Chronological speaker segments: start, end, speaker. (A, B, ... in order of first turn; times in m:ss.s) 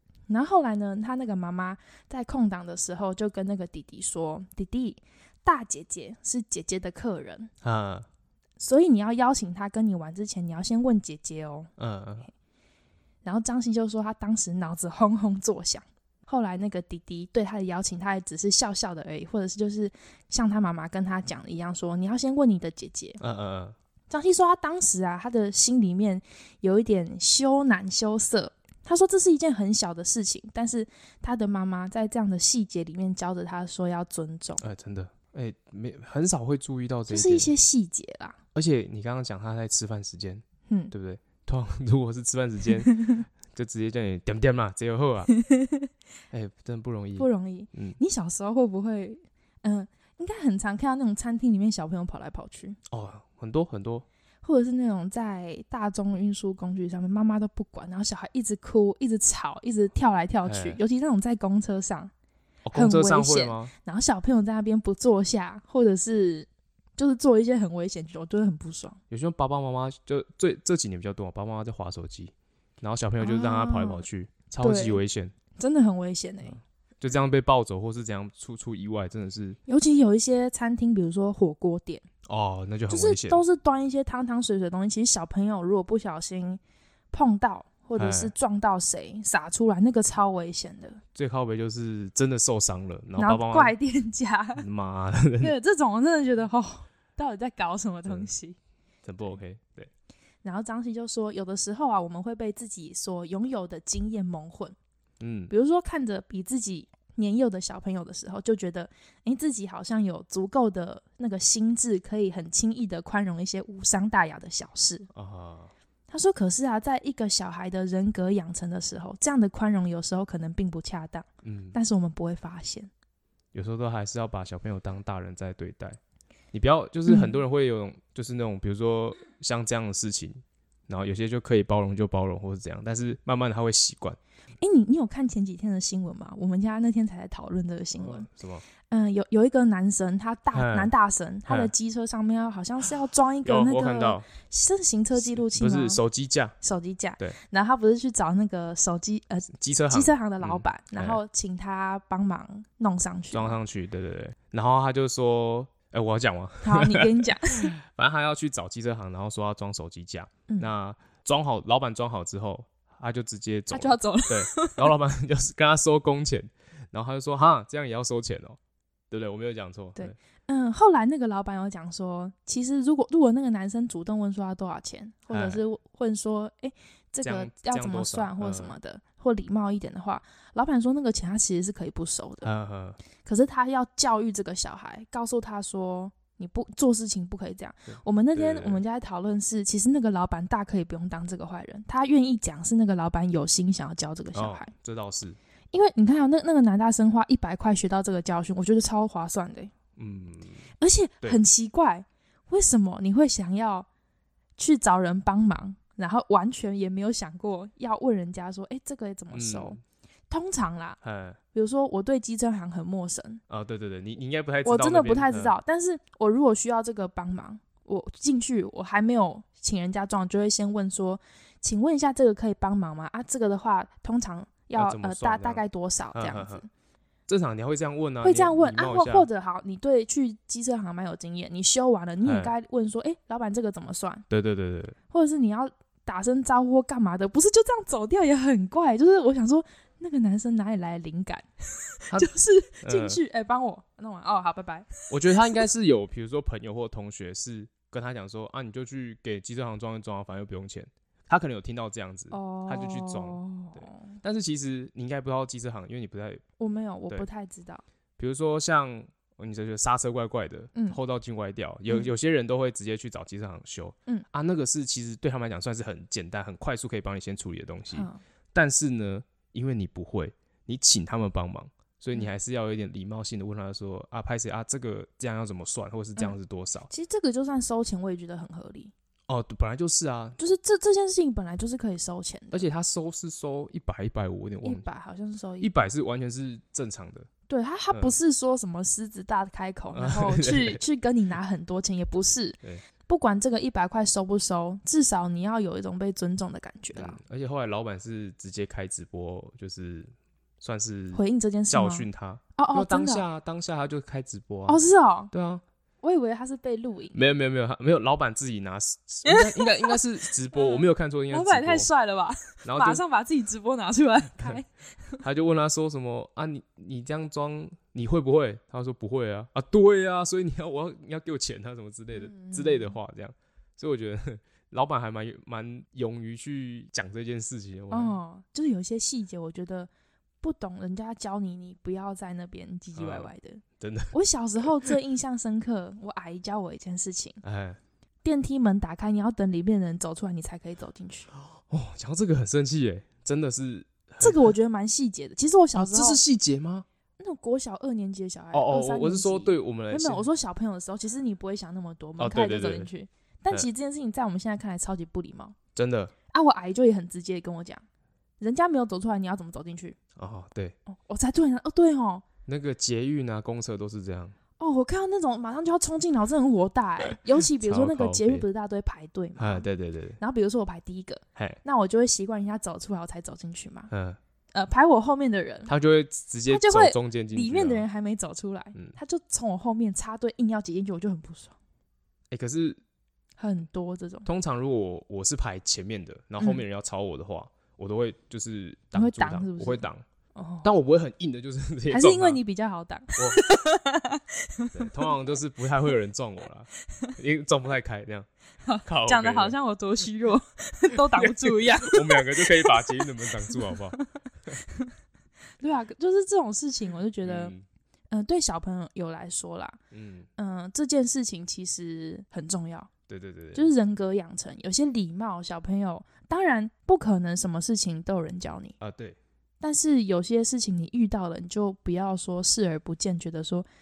0:00.3-0:07.5 A
0:07.6-0:08.1 B
0:08.6-0:11.7 A
0:11.8-0:12.3 B
0:13.2-0:23.2 A
0:23.2-0:23.8 B
0:24.1-0:34.6 A
0:34.6-0:37.5 B
0:37.1-0:38.4 A
0:38.5-0:45.3 B
0:40.7-0:40.9 A
0:45.3-0:45.9 A
0:46.3-0:48.0 B
0:47.2-0:52.8 A
0:52.9-0:54.0 B
0:54.4-1:02.1 A
1:00.4-1:00.8 B
1:02.6-1:03.7 B
1:02.7-1:09.0 A
1:09.1-1:15.3 B
1:13.2-1:14.0 A
1:14.6-1:15.0 A
1:15.6-1:16.6 A
1:16.4-1:19.6 B
1:19.7-1:22.0 A
1:22.2-1:23.4 B
1:22.9-1:26.6 A
1:27.1-1:31.0 A
1:28.0-1:28.3 B
1:31.1-1:33.7 B
1:33.2-1:34.6 A
1:34.6-1:35.5 B
1:35.4-1:38.6 A
1:39.0-1:39.9 B
1:40.4-1:44.7 A
1:45.2-1:45.5 B
1:45.5-1:55.1 A
1:55.1-1:55.7 B
1:56.1-2:02.9 A
2:01.4-2:01.8 B
2:03.5-2:06.0 B
2:06.5-2:14.2 B
2:07.1-2:07.4 A
2:14.6-2:18.3 A
2:17.9-2:18.6 B
2:18.9-2:26.0 A
2:20.5-2:20.9 B
2:21.5-2:21.7 B
2:23.4-2:24.2 B
2:25.1-2:26.5 B
2:26.6-2:33.6 A
2:29.5-2:31.2 B
2:33.3-2:48.6 B
2:36.6-2:37.7 A
2:43.7-2:44.9 A
2:49.1-2:50.2 B
2:50.0-3:02.5 A
2:55.3-2:55.6 B
2:57.2-2:58.8 B
3:02.4-3:03.0 B
3:03.2-3:14.7 A
3:07.9-3:08.8 B
3:14.3-3:15.4 B
3:15.7-3:19.7 A
3:20.0-3:20.6 B
3:20.8-3:23.9 A
3:24.6-3:29.8 A
3:29.3-3:29.8 B
3:30.3-3:31.0 A
3:31.0-3:31.4 B
3:31.5-3:33.4 A
3:33.5-3:35.5 B
3:34.6-3:46.7 A
3:44.7-3:45.6 B
3:46.1-3:46.6 B
3:47.3-3:49.3 B
3:48.2-3:54.2 A
3:52.2-3:52.5 B
3:54.3-3:54.9 B
3:55.1-4:05.6 A
4:02.8-4:03.2 B
4:05.1-4:16.4 B
4:12.3-4:14.2 A
4:16.6-4:17.8 A
4:18.2-4:36.9 B
4:27.9-4:28.2 A
4:36.9-4:38.9 A
4:39.3-4:40.4 B
4:40.4-4:42.6 A
4:42.5-4:44.8 B
4:44.6-4:45.7 A
4:45.6-4:47.3 B
4:47.5-4:57.2 A
4:49.9-4:50.8 B
4:56.9-5:04.8 B
5:01.1-5:03.2 A
5:04.7-5:05.3 A
5:05.3-5:05.6 B
5:06.0-5:07.2 A
5:07.1-5:11.9 B
5:09.2-5:10.0 A
5:10.5-5:15.2 A
5:12.6-5:13.0 B
5:15.2-5:28.2 B
5:22.1-5:23.0 A
5:27.9-5:29.9 A
5:30.4-5:37.4 A
5:32.9-5:34.1 B
5:37.4-5:37.8 B
5:38.2-5:41.3 A
5:41.3-5:44.5 B
5:44.2-5:46.2 A
5:45.7-5:46.8 B
5:47.2-5:55.5 A
5:48.5-5:50.2 B
5:52.2-5:52.9 B
5:55.7-5:56.1 B
5:56.3-5:57.8 A
5:58.4-6:00.0 A
6:00.2-6:00.8 B
6:00.9-6:02.2 A
6:02.4-6:04.3 B
6:04.6-6:09.6 A
6:07.6-6:08.4 B
6:09.4-6:10.2 B
6:10.2-6:13.9 A
6:13.9-6:14.2 B
6:14.5-6:15.7 A
6:15.7-6:17.8 B
6:16.5-6:21.5 A
6:22.3-6:22.8 B
6:23.4-6:24.3 A
6:24.2-6:30.0 B
6:28.9-6:30.7 A
6:30.6-6:32.4 B
6:31.9-6:35.2 A
6:33.2-6:33.4 B
6:34.7-6:38.3 B
6:38.6-6:44.9 A
6:38.8-6:39.6 B
6:41.0-6:44.0 B
6:45.6-6:47.5 A
6:47.2-6:47.6 B
6:48.1-6:49.8 A
6:49.9-6:50.3 B
6:50.4-6:52.9 A
6:53.1-6:53.7 B
6:53.5-6:58.8 A
6:58.8-6:59.2 B
6:59.6-7:03.7 A